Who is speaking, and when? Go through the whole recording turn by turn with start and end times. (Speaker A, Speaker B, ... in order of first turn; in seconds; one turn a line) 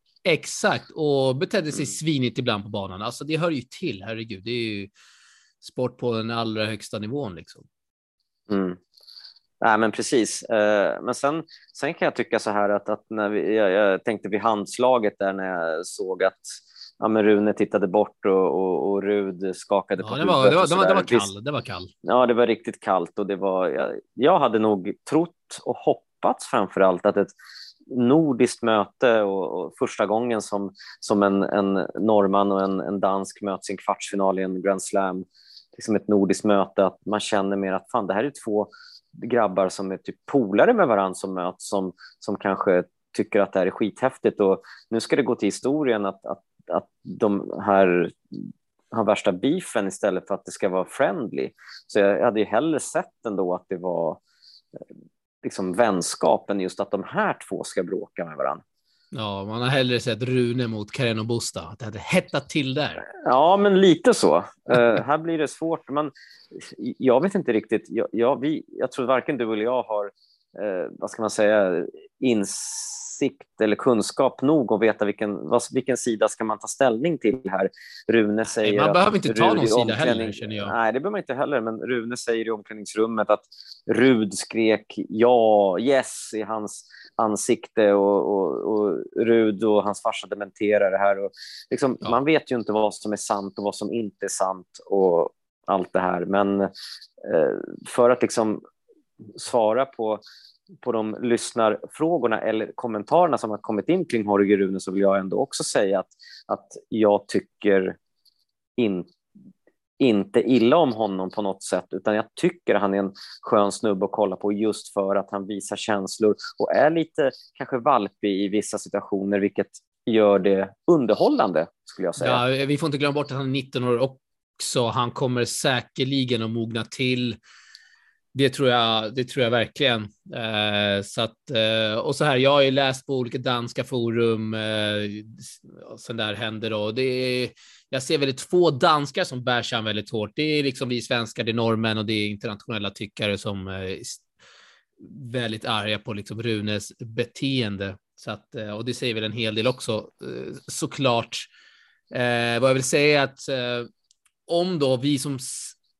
Speaker A: 0.2-4.9
Speaker A: 5.6-7.7
Speaker B: 8.5-8.8
Speaker B: 9.6-21.3
Speaker A: 20.0-21.9
Speaker B: 22.0-27.3
Speaker B: 27.9-54.2
Speaker B: 55.4-58.6
Speaker A: 59.1-63.0
Speaker B: 63.2-96.7
Speaker A: 78.5-80.7
Speaker B: 97.2-98.6
Speaker B: 99.3-100.2
Speaker B: 100.8-108.0
Speaker B: 108.8-109.1
Speaker B: 110.0-122.4
Speaker A: 122.2-127.4
Speaker A: 128.3-144.2
Speaker A: 145.0-151.5
Speaker A: 152.1-153.9
Speaker A: 154.5-155.8